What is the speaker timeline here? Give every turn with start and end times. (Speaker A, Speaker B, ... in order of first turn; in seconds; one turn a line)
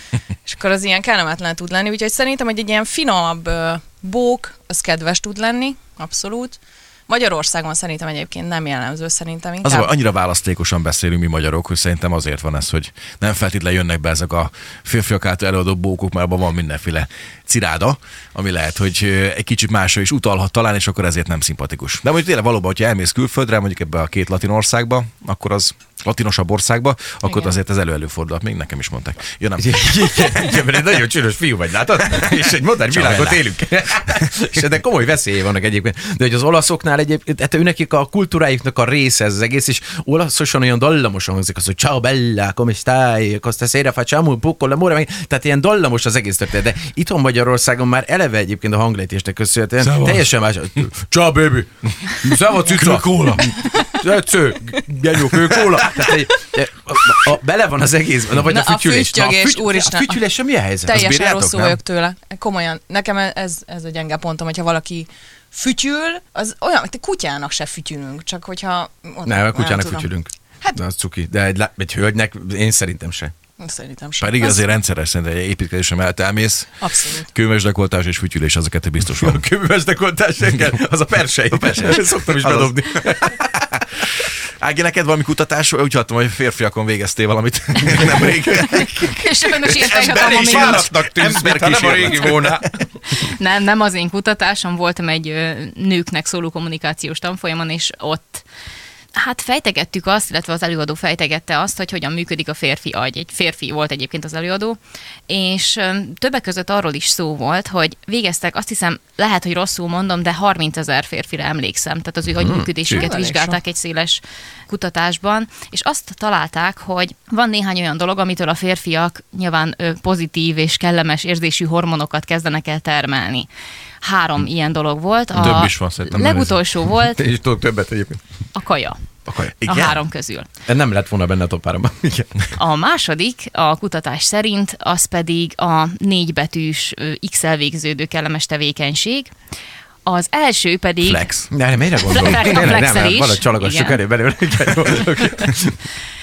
Speaker A: 0.5-9.9
Speaker B: 9.6-30.6
Speaker C: 29.6-61.0
Speaker B: 32.8-33.4
Speaker B: 49.8-50.3
Speaker B: 52.7-53.7
Speaker A: 58.4-60.2
Speaker A: 60.8-70.1
Speaker B: 60.9-61.8
Speaker C: 69.2-73.3
Speaker A: 73.6-74.6
Speaker B: 74.2-79.4
Speaker A: 76.8-77.3
Speaker C: 79.1-83.5
Speaker B: 81.5-83.4
Speaker B: 84.6-92.7
Speaker D: 89.0-90.9
Speaker C: 89.8-92.7
Speaker D: 93.1-98.4
Speaker D: 99.1-123.5
Speaker C: 112.4-112.7
Speaker A: 112.9-113.6
Speaker D: 124.0-127.2
Speaker B: 125.3-126.6
Speaker C: 127.2-128.2
Speaker D: 128.5-129.0
Speaker B: 129.3-130.0
Speaker D: 129.6-130.5
Speaker C: 130.7-132.5
Speaker D: 132.5-139.3
Speaker D: 140.0-141.3
Speaker B: 141.0-141.5
Speaker C: 141.5-145.8
Speaker D: 142.1-144.0